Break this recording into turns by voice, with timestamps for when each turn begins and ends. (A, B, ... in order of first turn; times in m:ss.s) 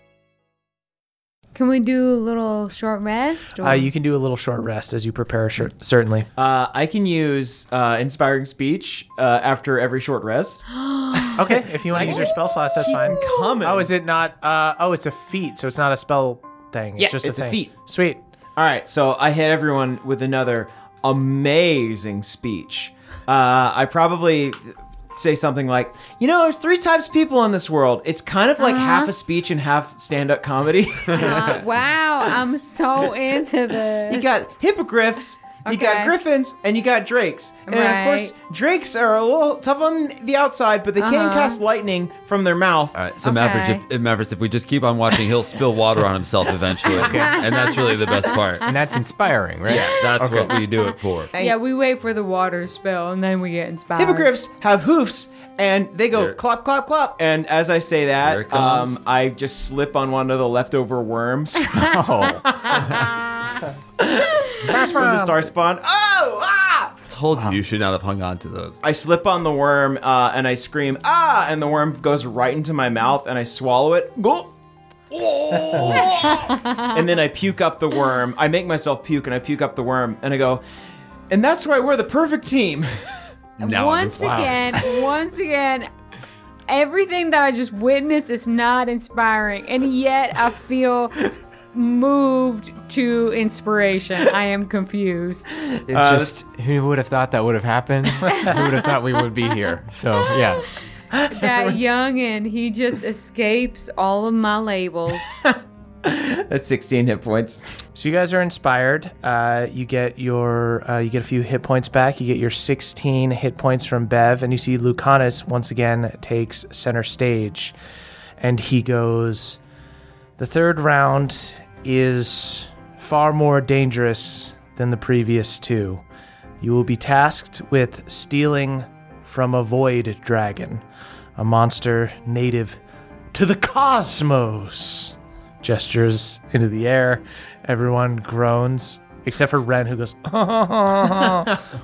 0:01.5-0:03.9 A
0:03.6-0:06.3 B
0:06.4-0:10.6 C
0:10.8-0:11.4 A
0:11.4-0:18.2 B
0:11.4-0:13.9 C
0:17.0-0:17.7 C
0:18.6-0:31.6 C
0:28.6-0:29.1 A
0:31.1-0:34.3 A
0:34.1-0:42.9 C
0:35.6-0:36.2 A
0:37.7-0:38.3 A
0:41.0-0:41.6 A
0:42.9-0:48.7 D
0:43.2-0:43.8 A
0:46.9-0:47.4 E
0:47.5-0:48.1 A
0:48.6-0:50.5 E
0:49.6-0:51.3 D
0:51.4-0:54.3 A
0:54.0-1:03.0 C
0:58.2-0:59.0 D
1:01.8-1:02.4 E
1:04.4-1:07.0 C
1:04.6-1:05.5 B
1:07.1-1:08.8 D
1:08.8-1:14.5 C
1:15.1-1:16.2 D
1:15.5-1:20.6 C
1:16.2-1:16.9 A
1:21.3-1:22.9 C
1:23.6-1:24.8 D
1:23.6-1:25.9 A
1:26.7-1:31.2 A
1:31.7-1:35.6 A
1:35.9-1:36.4 C
1:35.9-1:40.6 E
1:41.3-1:45.3 A
1:45.4-1:47.6 C
1:48.0-1:57.7 B
1:58.4-1:59.6 B
2:00.4-2:06.0 B
2:06.6-2:10.8 B
2:11.4-2:12.8 B
2:13.3-2:21.5 B